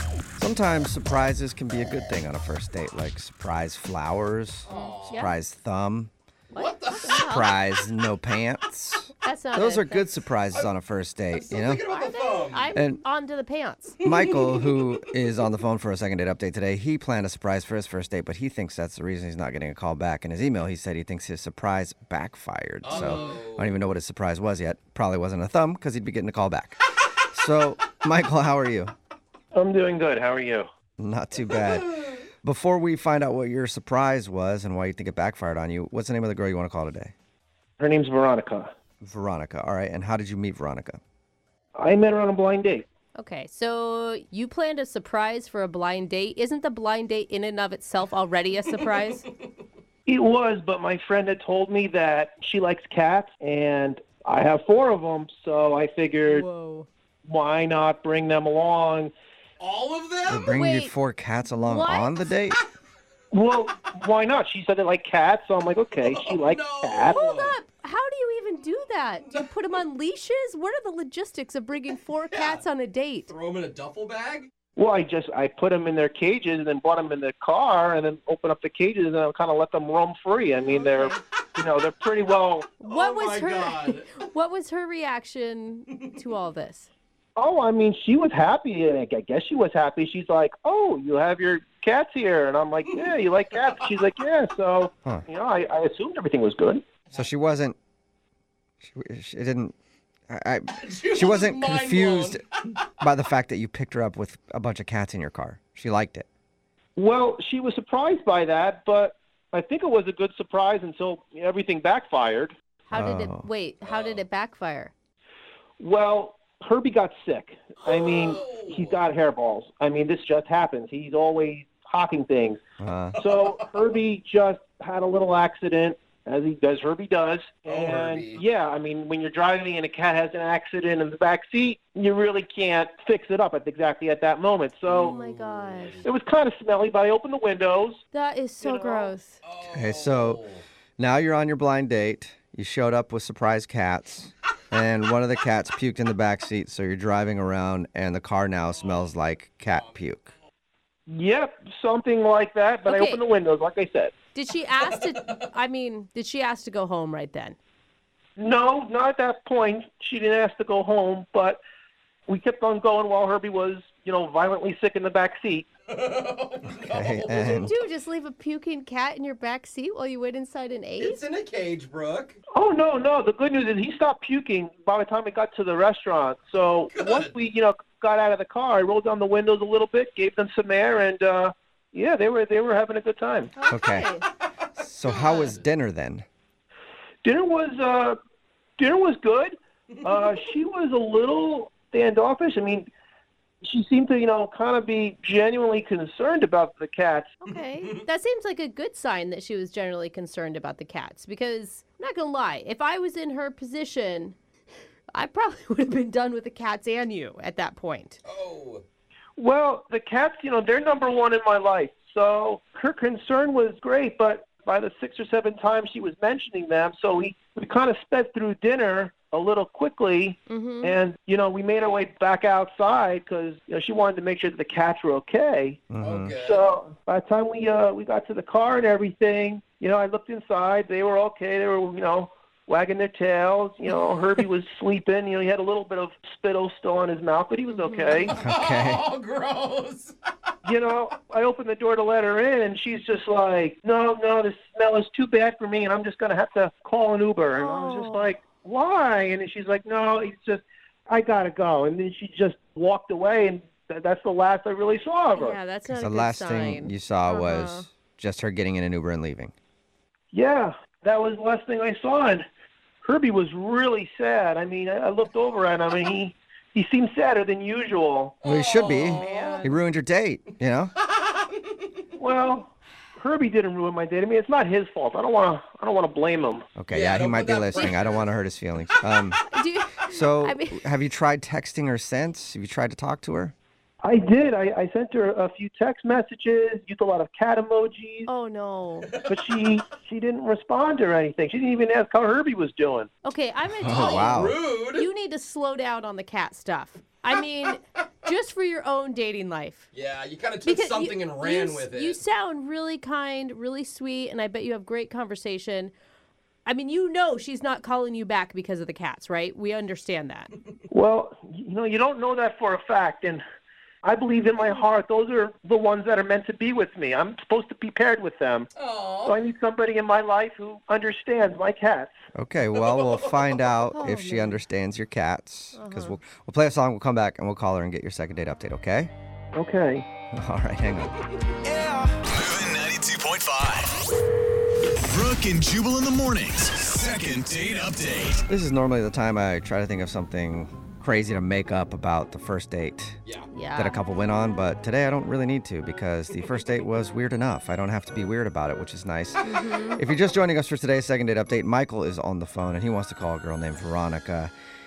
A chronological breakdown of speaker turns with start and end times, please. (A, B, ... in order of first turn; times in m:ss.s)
0:00.4-0:06.1 A
0:04.7-0:05.3 B
0:04.7-0:05.3 C
0:06.5-0:07.2 B
0:06.5-0:07.5 C
0:07.0-0:11.8 A
0:09.2-0:10.1 C
0:11.3-0:12.8 B
0:11.8-0:14.0 C
0:12.7-0:13.0 A
0:14.0-0:28.9 A
0:22.8-0:23.8 B
0:29.5-0:30.7 D
0:31.0-0:37.1 A
0:37.8-0:38.7 D
0:39.0-0:41.0 A
0:41.8-0:42.8 D
0:43.2-0:49.2 C
0:50.1-0:56.4 D
0:56.3-0:56.9 C
0:57.2-0:59.1 D
0:59.6-1:00.6 B
1:00.3-1:02.6 A
1:00.5-1:02.2 C
1:03.3-1:07.2 D
1:06.0-1:07.6 B
1:07.0-1:13.3 C
1:09.2-1:09.5 B
1:12.3-1:12.6 B
1:13.3-1:14.5 B
1:14.8-1:22.7 D
1:20.6-1:21.2 C
1:22.8-1:26.9 C
1:22.8-1:24.2 B
1:27.4-1:36.8 D
1:37.1-1:37.8 A
1:38.8-1:39.7 A
1:40.3-1:42.4 A
1:40.7-1:42.4 B
1:43.0-1:46.2 A
1:47.0-1:52.5 D
1:52.9-1:54.9 C
1:52.9-1:53.4 A
1:53.8-1:54.2 B
1:55.8-2:02.6 D
1:57.8-1:59.0 B
2:02.8-2:03.2 A
2:03.2-2:15.2 D
2:07.7-2:08.4 B
2:14.9-2:16.0 B
2:14.9-2:16.0 C
2:16.0-2:18.0 D
2:18.1-2:19.4 C
2:18.6-2:19.1 D
2:19.4-2:20.6 B
2:19.7-2:20.4 A
2:21.0-2:30.3 A
2:28.8-2:29.1 B
2:31.1-2:34.1 D
2:32.8-2:33.2 C
2:34.3-2:37.6 C
2:38.4-2:41.6 D
2:42.3-2:45.7 D
2:45.9-2:47.7 B
2:46.8-2:47.7 A
2:47.4-2:51.2 C
2:51.0-2:52.4 B
2:52.5-3:03.5 D
2:56.9-2:57.3 B
3:03.6-3:04.2 C
3:03.7-3:04.1 A
3:04.8-3:06.2 A
3:05.0-3:05.6 B
3:07.2-3:08.2 D
3:08.8-3:12.9 D
3:13.6-3:17.3 D
3:17.4-3:24.4 C
3:17.5-3:18.0 B
3:25.1-3:28.2 C
3:28.2-3:28.8 B
3:29.4-3:45.8 D
3:40.5-3:41.0 C
3:45.9-3:46.3 A
3:46.0-3:46.7 B
3:46.4-3:58.3 D
3:57.7-3:58.2 C
3:58.2-4:00.1 B
3:58.4-3:59.0 A
4:00.6-4:15.6 D
4:07.5-4:08.4 C
4:15.4-4:17.9 C
4:15.9-4:19.5 A
4:20.3-4:22.4 D
4:23.0-4:28.3 D
4:28.4-4:29.7 B
4:28.4-4:30.9 A
4:29.2-4:29.8 C
4:32.2-4:36.6 D
4:36.8-4:39.4 A
4:36.9-4:38.2 B
4:39.4-4:40.9 C
4:40.1-4:43.5 A
4:44.0-4:48.3 D
4:48.3-4:49.1 C
4:49.2-4:53.1 D
4:53.2-4:59.8 C
4:53.8-4:54.6 A
4:53.8-4:55.1 B
4:59.9-5:02.2 B
5:00.6-5:05.9 C
5:06.6-5:10.5 C
5:10.9-5:13.4 D
5:14.0-5:18.7 D
5:18.8-5:19.4 B
5:19.2-5:22.1 D
5:22.3-5:29.1 A
5:22.9-5:23.5 B
5:23.9-5:24.6 C
5:25.7-5:26.2 C
5:29.5-5:30.0 D
5:30.3-5:31.2 A
5:32.2-5:33.9 E
5:35.0-5:38.4 E
5:38.5-5:43.2 A
5:43.5-5:44.0 C
5:43.8-5:54.5 A
5:49.4-5:50.0 C